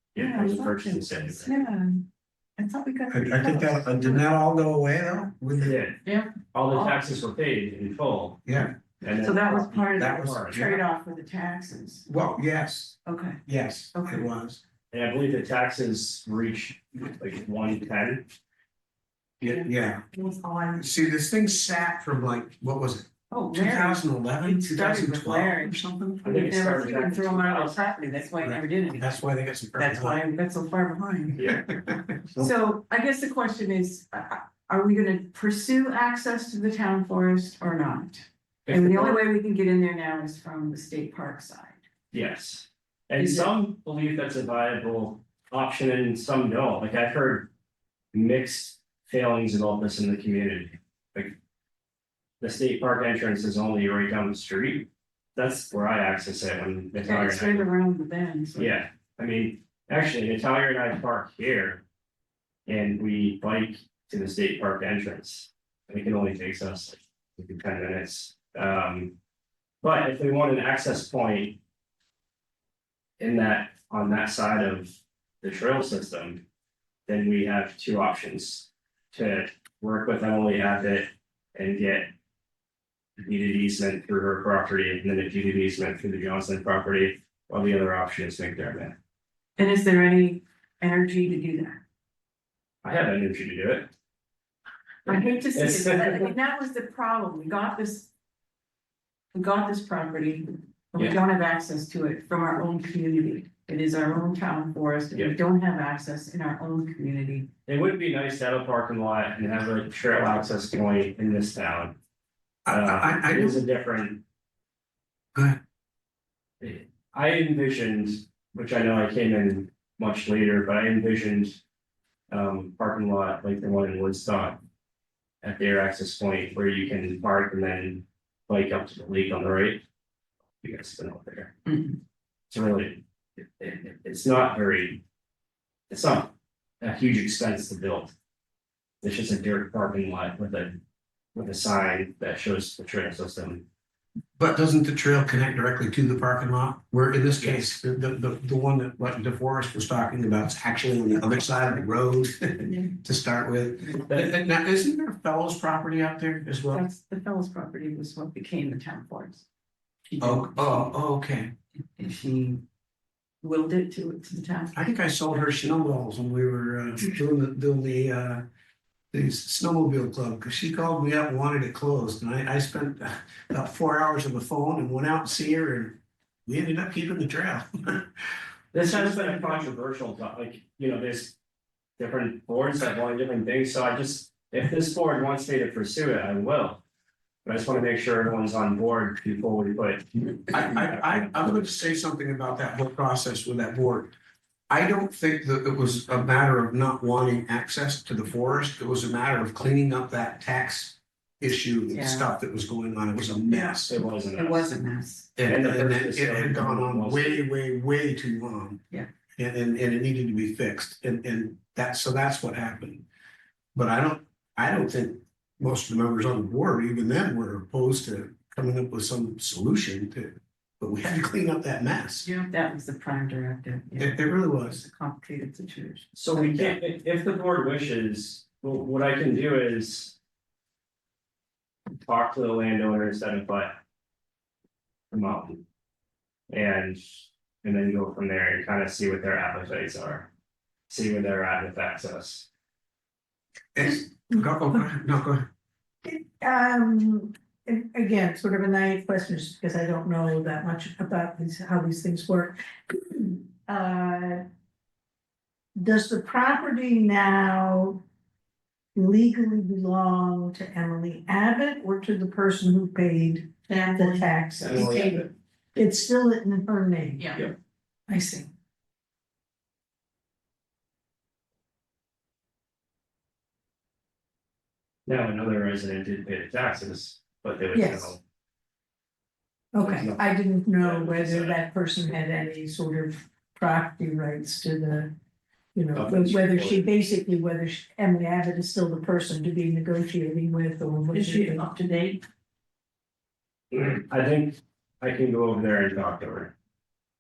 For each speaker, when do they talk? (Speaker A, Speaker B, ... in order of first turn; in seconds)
Speaker A: 0.1-1.5, 5.6-6.0, 6.5-8.4, 9.0-10.7, 14.9-18.2, 26.2-27.8, 31.4-31.7, 38.7-39.2, 42.1-47.5, 48.1-51.4, 52.4-57.7, 58.6-61.8, 62.7-69.1, 69.8-71.6, 73.2-76.4, 77.1-82.1, 83.2-89.0, 92.8-93.9, 95.1-96.3, 107.7-112.0, 112.7-114.2, 116.6-121.6, 122.3-124.6, 125.4-129.8, 130.6-131.6, 132.5-135.0, 135.9-138.1, 139.0-140.8, 141.3-143.6, 178.7-181.3, 182.0-186.8, 187.4-191.3, 203.8-204.7, 205.4-207.4, 226.2-230.2, 232.0-233.8, 235.1-235.6, 236.5-237.0, 237.6-240.3, 240.9-242.5, 264.6-265.3, 275.1-278.2, 279.8-281.6, 285.9-286.9, 293.7-296.5
Speaker B: 0.2-2.0, 2.6-4.3, 6.0-7.1, 9.2-12.1, 13.1-13.4, 13.9-14.3, 19.4-20.9, 23.3-29.2, 29.8-31.4, 32.4-41.8, 43.2-43.5, 57.0-58.8, 89.6-91.8, 95.1-98.1, 99.3-107.5, 131.7-132.0, 156.7-159.4, 160.1-160.9, 162.0-162.6, 163.4-164.9, 178.8-179.7, 201.9-202.3, 203.5-203.8, 204.3-205.3, 222.2-226.8, 263.7-264.9, 267.2-267.4, 291.1-292.2
Speaker C: 3.1-5.8, 8.4-8.8, 10.0-10.8, 12.1-14.6, 19.4-20.1, 20.8-26.3, 28.4-30.2, 31.5-32.5, 112.7-113.6, 115.3-115.6, 144.4-156.8, 160.2-161.5, 164.7-168.4, 169.1-178.1, 190.5-194.1, 194.7-204.0, 205.4-208.8, 209.4-213.1, 213.8-222.3, 224.0-224.8, 243.8-245.4
Speaker D: 246.1-254.4, 255.8-258.0, 258.9-267.4, 268.1-268.5, 277.7-278.1, 279.7-285.1, 285.8-291.7